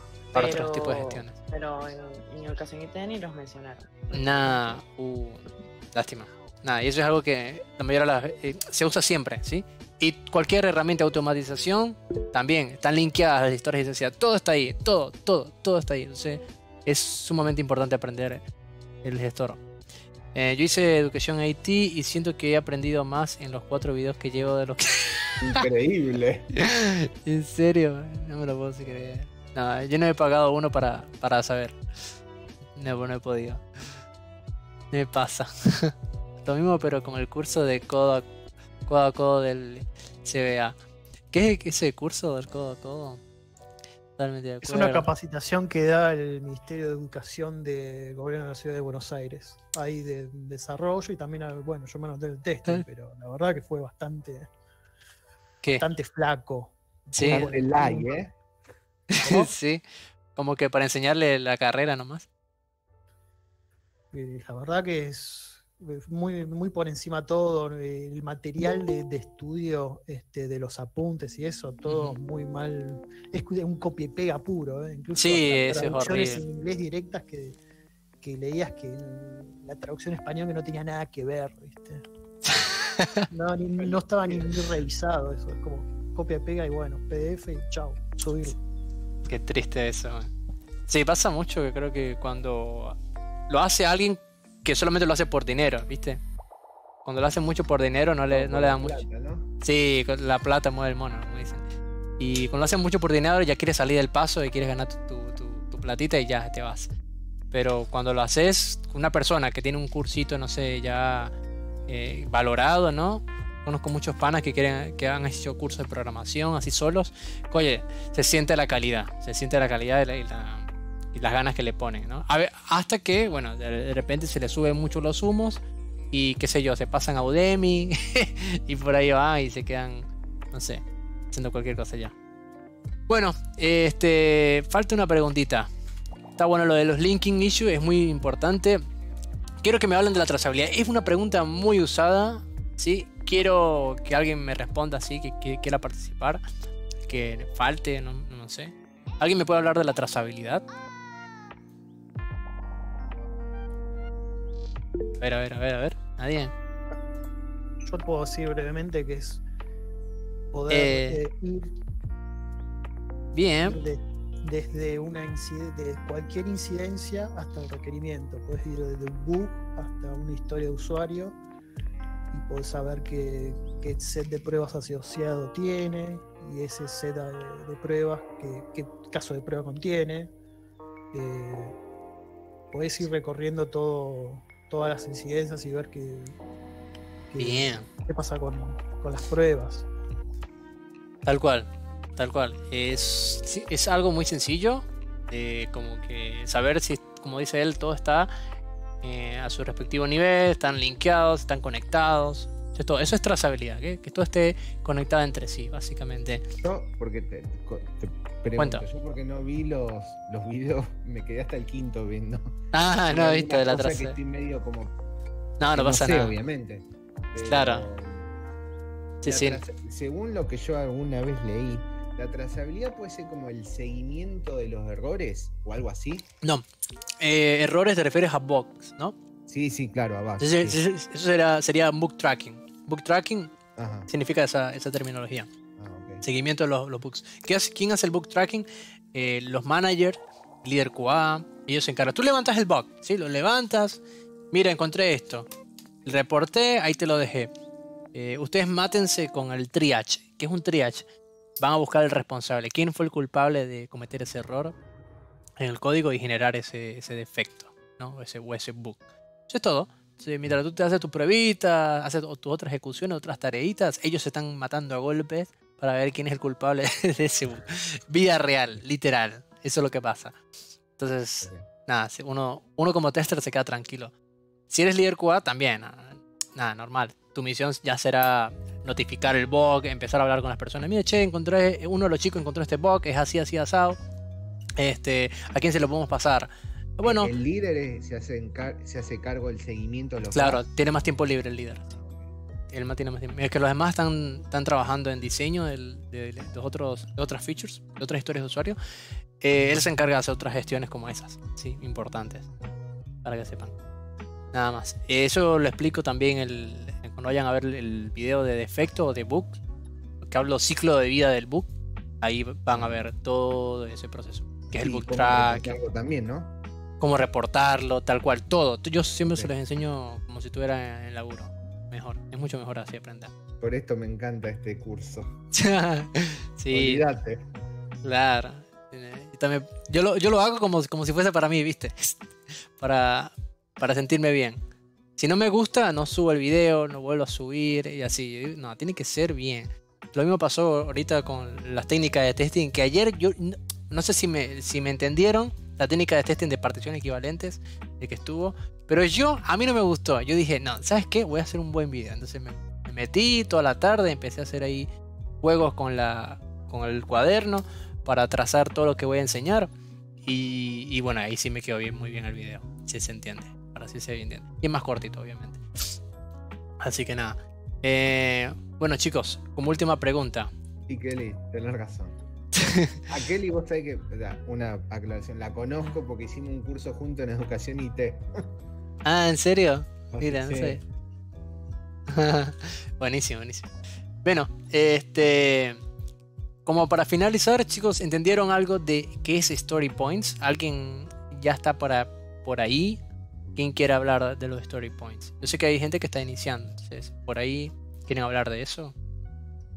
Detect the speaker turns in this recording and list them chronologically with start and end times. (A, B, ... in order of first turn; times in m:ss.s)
0:00.3-0:04.8 A
0:00.3-0:01.3 B
0:04.1-0:18.4 B
0:19.0-0:19.6 B
0:20.3-0:25.6 B
0:25.4-0:26.5 C
0:26.6-0:31.8 B
0:32.8-0:33.6 B
0:34.9-0:35.9 B
0:36.4-0:38.2 B
0:38.8-0:40.8 B
0:41.3-0:43.2 B
0:44.2-0:45.1 B
0:44.6-0:54.5 D
0:55.8-0:58.1 D
0:57.1-0:57.5 B
0:57.2-0:58.3 C
0:59.1-0:59.8 B
1:00.3-1:02.2 B
1:04.1-1:17.6 D
1:11.8-1:12.2 B
1:15.1-1:16.4 B
1:18.2-1:22.0 D
1:22.5-1:23.2 B
1:23.3-1:28.6 D
1:23.8-1:24.6 C
1:29.3-1:30.3 B
1:30.9-1:33.0 B
1:33.5-1:36.2 B
1:37.0-1:39.0 B
1:38.3-1:39.5 C
1:39.6-1:41.7 B
1:42.2-1:46.9 B
1:47.5-1:51.3 B
1:51.9-2:12.1 B
2:13.1-2:15.7 B
2:16.4-2:18.8 B
2:19.6-2:26.4 B
2:27.1-2:30.6 B
2:35.2-2:36.5 B
2:37.8-2:39.4 D
2:40.5-2:41.7 D
2:40.7-2:41.2 B
2:43.3-2:43.8 B
2:43.6-2:51.4 D
2:52.3-3:00.3 D
3:01.1-3:01.8 D
3:02.7-3:06.4 D
3:07.3-3:09.8 D
3:07.4-3:07.9 B
3:11.2-3:18.3 B
3:19.0-3:26.4 B
3:26.6-3:32.5 C
3:28.6-3:28.8 B
3:32.7-3:34.2 B
3:33.1-3:35.0 C
3:35.6-3:36.4 B
3:35.7-3:38.3 C
3:37.5-3:37.9 B
3:39.2-3:39.6 B
3:39.2-3:46.3 C
3:47.2-3:49.2 B
3:49.5-3:50.8 C
3:50.4-3:53.5 B
3:53.8-3:54.1 C
3:54.1-3:55.5 B
3:55.8-3:56.2 C
3:56.2-4:04.0 B
4:04.5-4:05.5 B
4:06.0-4:07.5 B
4:08.1-4:11.0 B
4:11.6-4:14.7 B
4:15.6-4:30.4 B
4:31.0-4:34.1 B
4:31.4-4:31.7 C
4:34.7-4:44.0 B
4:44.8-4:47.3 B
4:47.0-4:50.6 C
4:50.3-4:52.0 B
4:52.0-4:52.2 C
4:52.7-4:58.8 B
4:59.4-5:02.5 B
5:03.2-5:03.7 B
5:04.5-5:09.6 B
5:10.2-5:11.7 B
5:12.2-5:15.8 B
5:14.7-5:16.5 C
5:17.0-5:23.3 B
5:23.6-5:25.3 C
5:25.5-5:27.0 B
5:26.7-5:27.4 C
5:28.0-5:32.2 B
5:32.8-5:34.6 B
5:35.2-5:54.9 B
5:55.4-5:59.7 B
6:00.2-6:06.0 B
6:06.8-6:10.5 B
6:10.9-6:12.2 C
6:12.6-6:13.0 B
6:13.1-6:18.5 C
6:19.0-6:20.8 B
6:20.1-6:20.8 C
6:22.1-6:23.7 B
6:24.2-6:25.8 B
6:26.6-6:33.0 B
6:33.6-6:38.9 B